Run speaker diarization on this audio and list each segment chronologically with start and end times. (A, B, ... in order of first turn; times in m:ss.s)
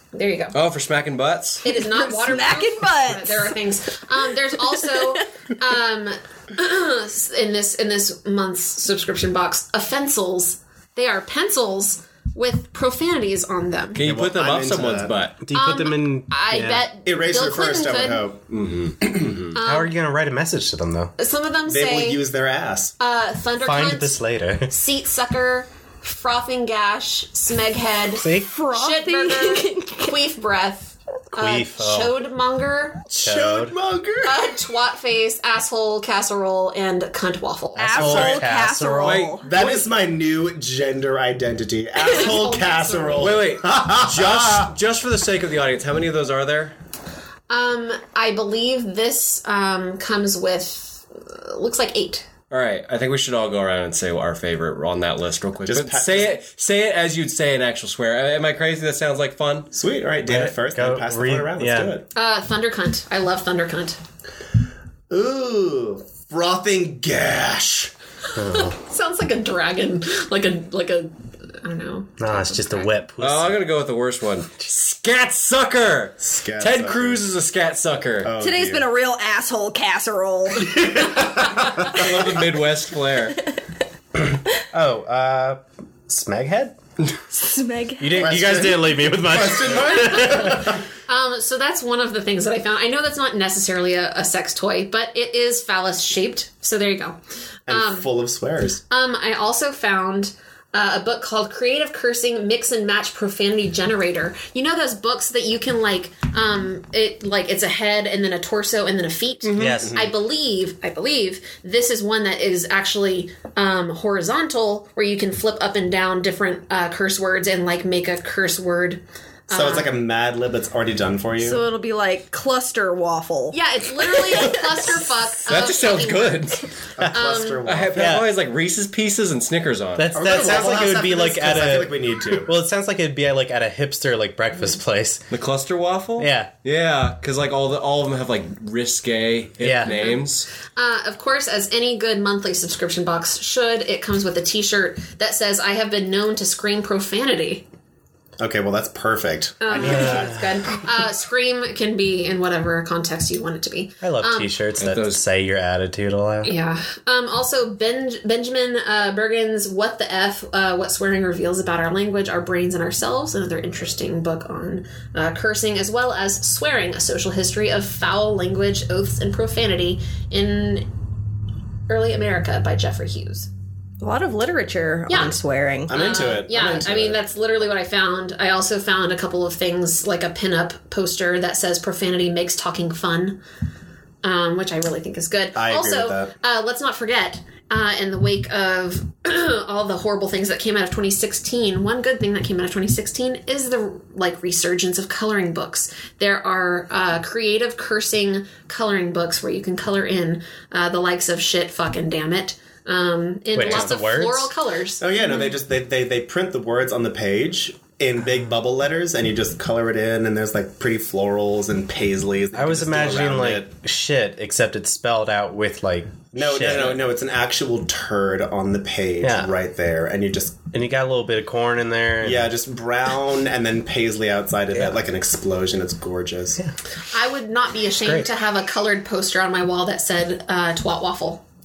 0:00.1-0:00.6 A
0:00.5-0:01.6 B
0:01.6-0:14.0 A
0:01.8-0:03.6 C
0:14.0-0:15.4 B
0:14.0-0:15.2 D
0:15.4-0:16.8 E
0:15.5-0:18.2 A
0:17.0-0:18.5 D
0:18.5-0:19.5 B
0:19.5-0:19.9 A
0:19.6-0:21.1 E
0:21.2-0:22.2 A
0:21.7-0:23.0 D
0:23.0-0:33.0 A
0:23.6-0:24.7 E
0:28.2-0:28.5 E
0:28.4-0:30.2 C
0:31.3-0:32.2 E
0:33.1-0:34.5 D
0:33.2-0:33.8 E
0:34.2-0:38.2 A
0:37.8-0:39.5 C
0:37.8-0:39.3 E
0:38.0-0:38.5 D
0:39.0-0:39.8 B
0:39.4-0:44.7 D
0:42.0-0:43.4 A
0:43.2-0:46.8 B
0:47.5-0:52.3 A
0:52.5-0:59.7 B
0:55.7-0:56.3 D
0:59.7-1:02.1 D
1:00.3-1:01.9 E
1:02.1-1:04.0 A
1:05.1-1:07.9 D
1:08.4-1:08.8 E
1:08.4-1:12.9 A
1:12.2-1:13.6 E
1:13.2-1:18.3 B
1:16.2-1:17.2 D
1:18.2-1:18.9 D
1:18.4-1:21.0 C
1:20.7-1:22.4 D
1:21.8-1:23.4 B
1:24.7-1:26.8 E
1:27.3-1:28.6 C
1:28.0-1:30.8 E
1:28.2-1:30.8 D
1:30.2-1:30.6 A
1:31.1-1:38.1 A
1:37.7-1:38.8 D
1:38.9-2:00.0 A
1:49.4-1:49.8 B
1:49.6-1:50.1 E
1:49.8-1:50.1 D
1:59.5-2:01.6 D
2:01.4-2:04.9 C
2:03.5-2:06.6 A
2:05.4-2:06.7 B
2:07.0-2:08.1 D
2:07.1-2:07.7 A
2:07.6-2:10.2 B
2:07.9-2:08.3 E
2:10.0-2:15.3 E
2:10.1-2:12.5 D
2:15.3-2:20.5 B
2:16.2-2:16.5 E
2:19.6-2:19.9 E
2:19.9-2:27.6 A
2:28.4-2:30.8 D
2:29.6-2:34.5 A
2:29.8-2:30.5 E
2:34.0-2:36.5 E
2:34.8-2:35.2 B
2:36.4-2:50.9 A
2:51.9-2:53.5 A
2:54.0-2:55.9 C
2:55.1-2:55.4 A
2:55.9-2:57.2 D
2:55.9-3:03.4 A
3:04.2-3:25.5 A
3:05.5-3:06.3 D
3:23.5-3:24.5 E
3:25.0-3:33.7 D
3:32.5-3:37.0 E
3:36.4-3:40.7 D
3:39.2-3:39.5 E
3:40.7-3:42.5 E
3:42.2-3:46.6 D
3:44.7-3:45.0 E
3:47.1-3:51.4 A